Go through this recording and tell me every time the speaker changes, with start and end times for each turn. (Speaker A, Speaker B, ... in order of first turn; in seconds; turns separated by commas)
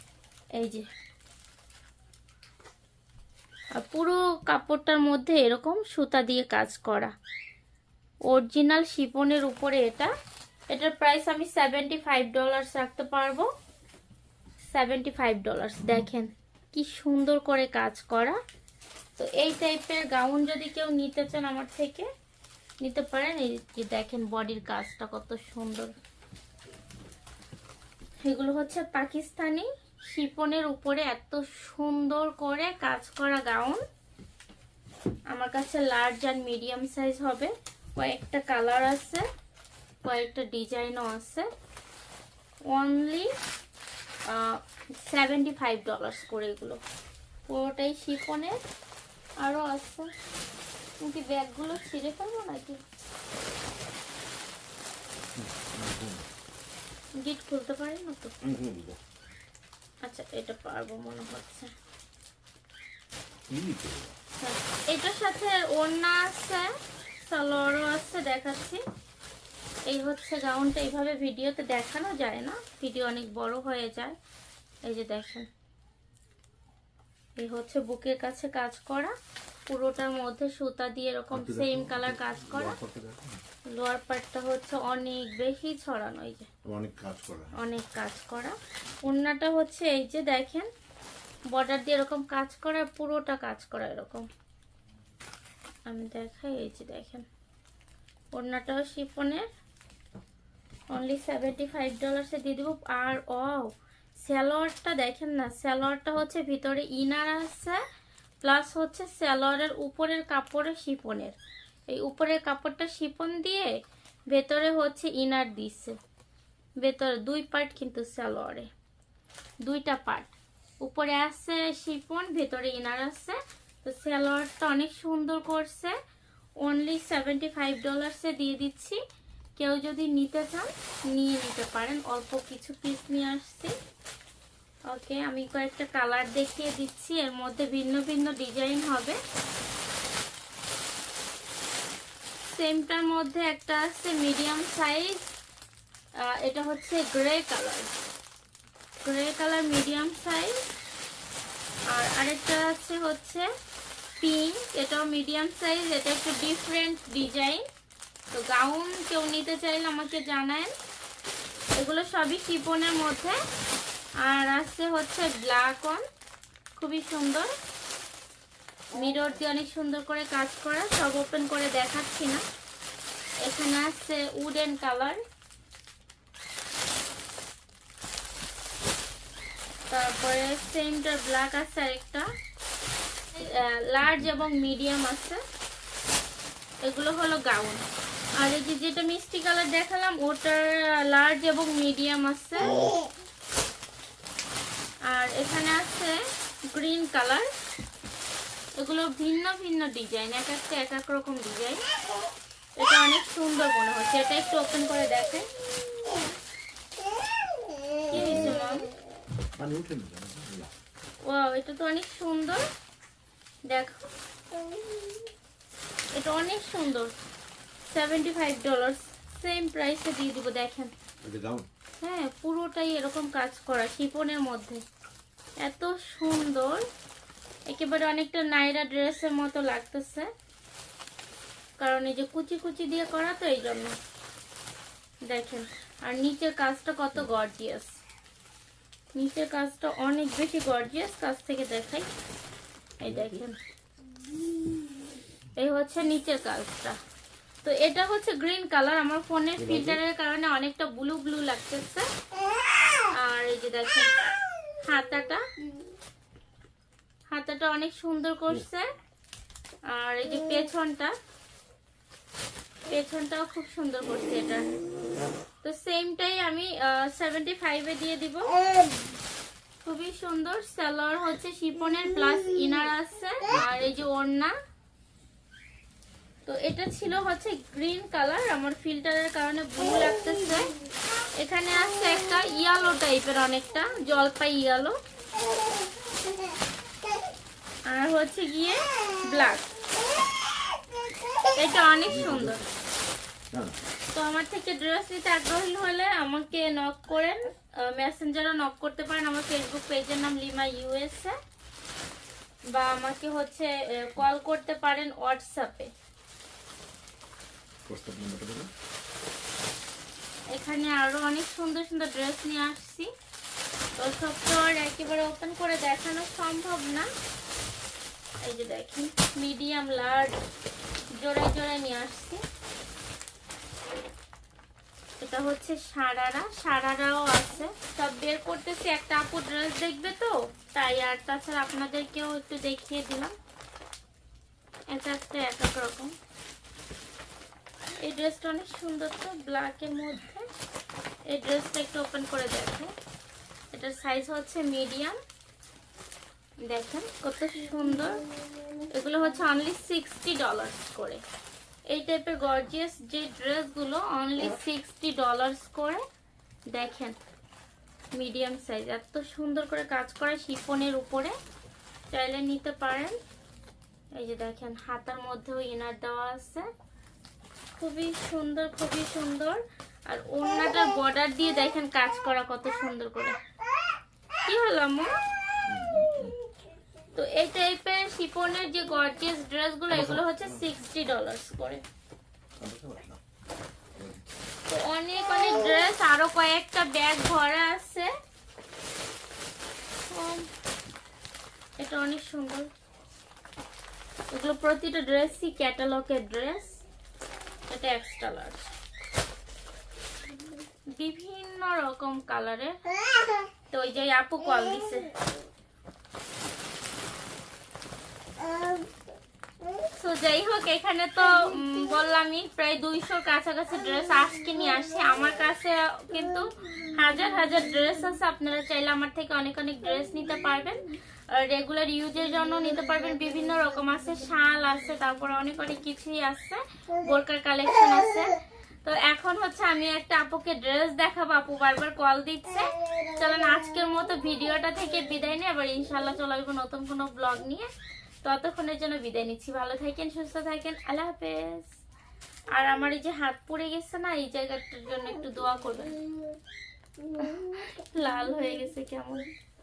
Speaker A: 0.5-0.8, Speaker A: 3.8-7.1, Speaker A: 8.3-10.1, Speaker A: 10.7-13.5, Speaker A: 14.7-18.4, Speaker A: 19.2-22.1, Speaker A: 22.8-25.9, Speaker A: 28.2-33.8, Speaker A: 35.3-39.2, Speaker A: 40.0-41.5, Speaker A: 42.7-43.3, Speaker A: 44.3-46.8, Speaker A: 47.5-48.6, Speaker A: 49.4-50.1, Speaker A: 51.0-52.8, Speaker B: 55.4-56.2, Speaker A: 57.2-58.3, Speaker B: 58.4-59.0, Speaker A: 60.0-61.7, Speaker B: 63.5-64.2, Speaker A: 64.4-68.8, Speaker A: 69.8-74.1, Speaker A: 74.8-75.5, Speaker A: 77.4-79.1, Speaker A: 79.7-82.8, Speaker B: 81.3-83.4, Speaker A: 83.7-86.5, Speaker B: 86.6-87.6, Speaker A: 87.6-90.7, Speaker A: 91.5-94.3, Speaker A: 95.9-97.2, Speaker A: 98.3-99.5, Speaker A: 100.9-107.8, Speaker A: 108.4-111.3, Speaker A: 111.9-113.8, Speaker A: 114.3-115.9, Speaker A: 116.8-118.7, Speaker A: 119.6-125.9, Speaker A: 126.6-129.0, Speaker A: 129.6-133.7, Speaker A: 134.9-139.2, Speaker A: 142.5-145.3, Speaker A: 146.2-147.9, Speaker A: 149.0-150.6, Speaker A: 151.9-153.5, Speaker A: 154.2-157.6, Speaker A: 158.3-160.7, Speaker A: 161.8-163.4, Speaker A: 164.2-166.0, Speaker A: 166.8-167.5, Speaker A: 168.9-172.4, Speaker A: 173.4-175.2, Speaker A: 179.9-182.3, Speaker A: 183.3-185.4, Speaker A: 186.8-187.8, Speaker A: 188.4-192.9, Speaker A: 195.1-197.5, Speaker A: 198.8-201.8, Speaker A: 202.8-205.5, Speaker B: 208.1-208.7, Speaker A: 208.1-208.9, Speaker B: 209.6-210.7, Speaker A: 211.2-212.6, Speaker A: 213.7-214.1, Speaker A: 216.1-217.1, Speaker A: 217.8-220.9, Speaker B: 221.2-221.7, Speaker A: 222.0-224.8, Speaker A: 225.6-226.8, Speaker A: 227.7-230.3, Speaker A: 231.8-233.9, Speaker A: 235.2-238.0, Speaker A: 239.1-242.1, Speaker A: 243.0-243.6, Speaker B: 243.0-243.4, Speaker A: 245.6-247.0, Speaker A: 247.6-252.1, Speaker B: 249.6-250.0, Speaker A: 253.0-254.1, Speaker A: 254.8-255.4, Speaker A: 257.3-258.9, Speaker A: 259.9-261.1, Speaker A: 262.9-264.7, Speaker A: 265.6-268.6, Speaker A: 269.8-274.5, Speaker A: 276.4-280.7, Speaker A: 281.4-285.0, Speaker A: 287.9-289.7, Speaker A: 291.4-292.6, Speaker B: 292.1-292.6, Speaker B: 293.5-293.8, Speaker A: 294.1-301.4, Speaker A: 302.7-305.9, Speaker B: 307.9-308.7, Speaker A: 310.5-313.1, Speaker A: 314.0-317.1, Speaker A: 318.4-320.3, Speaker A: 321.2-322.4, Speaker A: 325.2-333.3, Speaker A: 334.9-336.1, Speaker A: 338.0-340.5, Speaker A: 341.3-342.9, Speaker A: 343.7-345.2, Speaker A: 346.6-348.3, Speaker A: 348.9-351.2, Speaker A: 351.9-356.0, Speaker A: 356.7-357.1, Speaker A: 358.1-361.4, Speaker A: 362.1-363.2, Speaker A: 364.1-366.7, Speaker A: 367.8-373.4, Speaker A: 374.4-375.1, Speaker B: 375.6-376.4, Speaker A: 377.1-381.8, Speaker B: 379.9-380.7, Speaker B: 382.6-383.2, Speaker B: 383.9-384.3, Speaker A: 384.7-388.1, Speaker A: 390.0-390.5, Speaker A: 391.8-392.7, Speaker A: 394.3-396.8, Speaker A: 397.7-398.7, Speaker A: 400.9-402.8, Speaker A: 403.7-405.2, Speaker A: 409.8-437.7, Speaker A: 438.2-441.8, Speaker A: 442.5-446.0, Speaker A: 447.1-449.3